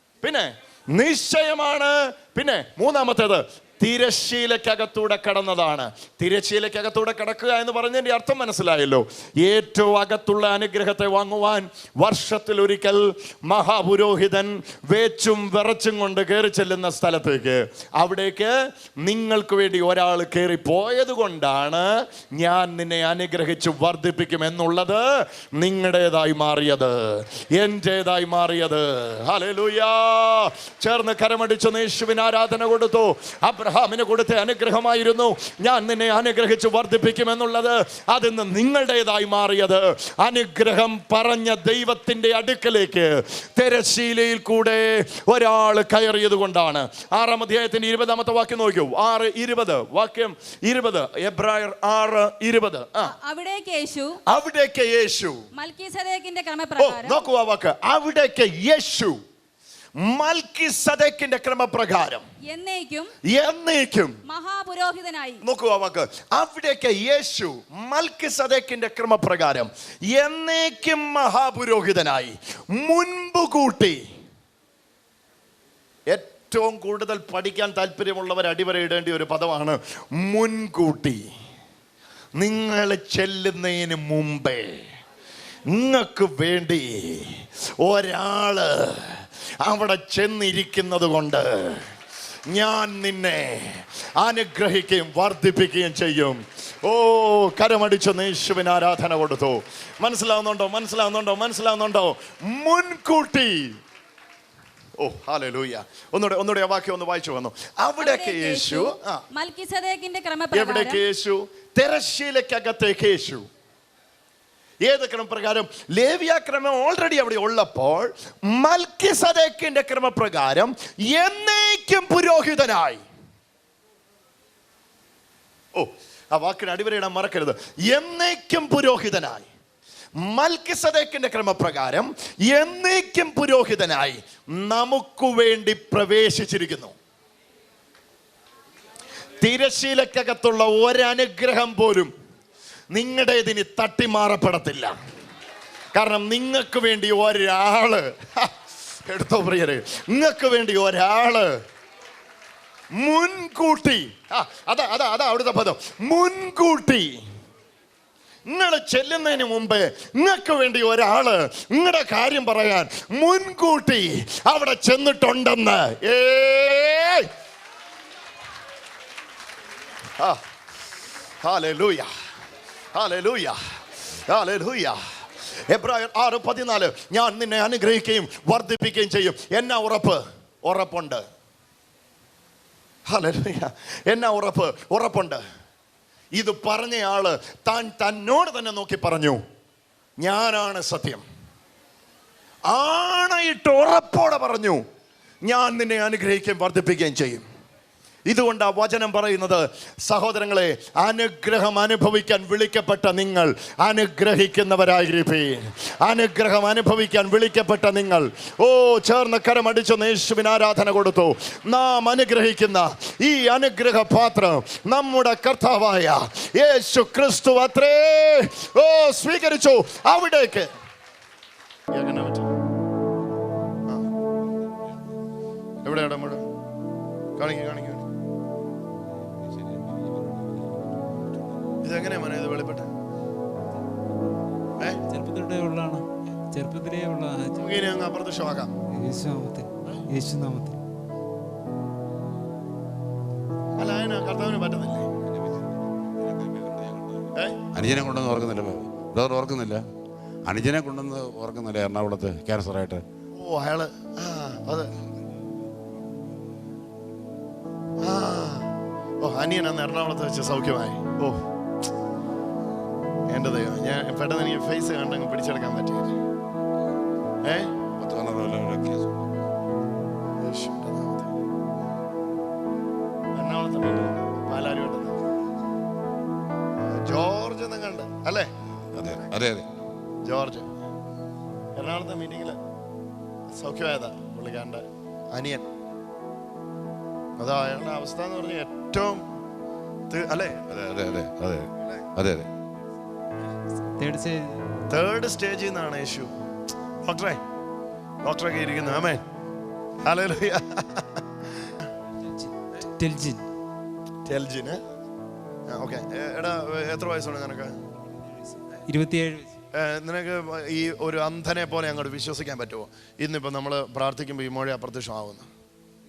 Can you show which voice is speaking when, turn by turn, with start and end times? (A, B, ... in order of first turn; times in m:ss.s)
0:00.2-0:53.1 A
0:53.0-0:54.2 B
0:54.3-0:55.4 A
0:55.5-0:57.2 B
0:56.8-0:59.2 A
1:00.0-1:02.2 A
1:02.4-1:03.1 B
1:03.2-1:04.2 A
1:04.2-1:05.4 B
1:05.4-1:14.0 A
1:16.1-1:21.2 A
1:22.4-1:24.8 A
1:25.7-1:31.8 A
1:32.5-1:43.8 A
1:45.0-1:49.2 A
1:48.0-1:51.0 B
1:50.5-1:53.5 A
1:54.8-2:03.0 A
2:05.7-2:09.5 A
2:10.2-2:16.9 A
2:19.4-2:22.1 A
2:22.9-2:24.9 A
2:25.9-2:31.6 A
2:32.9-2:37.2 A
2:38.5-2:47.3 A
2:51.4-2:52.1 A
2:52.9-2:55.0 A
2:55.7-3:01.2 A
3:03.1-3:05.4 A
3:06.3-3:09.4 A
3:10.2-3:11.2 A
3:12.7-3:14.8 A
3:15.4-3:17.4 A
3:18.3-3:40.7 A
3:41.9-3:42.5 A
3:44.2-3:45.0 C
3:45.8-3:46.5 A
3:47.4-3:48.1 A
3:49.1-3:51.8 C
3:51.8-3:52.9 A
3:55.1-3:57.7 D
3:57.6-3:58.7 A
3:58.9-4:00.8 D
4:03.8-4:05.1 A
4:05.2-4:09.8 C
4:10.4-4:13.0 C
4:13.4-4:14.9 A
4:18.0-4:18.7 A
4:19.2-4:21.4 A
4:23.3-4:26.2 A
4:27.4-4:27.7 A
4:28.0-4:29.4 C
4:30.4-4:31.3 A
4:33.4-4:35.2 A
4:36.8-4:38.5 A
4:38.9-4:39.7 C
4:40.2-4:40.7 A
4:41.8-4:42.6 A
4:43.5-4:45.6 A
4:47.4-4:49.2 A
4:50.1-4:50.7 A
4:50.7-4:52.5 C
4:54.0-4:54.6 D
4:54.9-4:56.3 A
4:57.0-4:57.4 A
4:58.2-4:59.2 A
5:00.0-5:01.7 A
5:02.2-5:03.4 D
5:04.2-5:04.8 A
5:05.7-5:07.8 A
5:08.9-5:09.6 D
5:09.7-5:15.5 A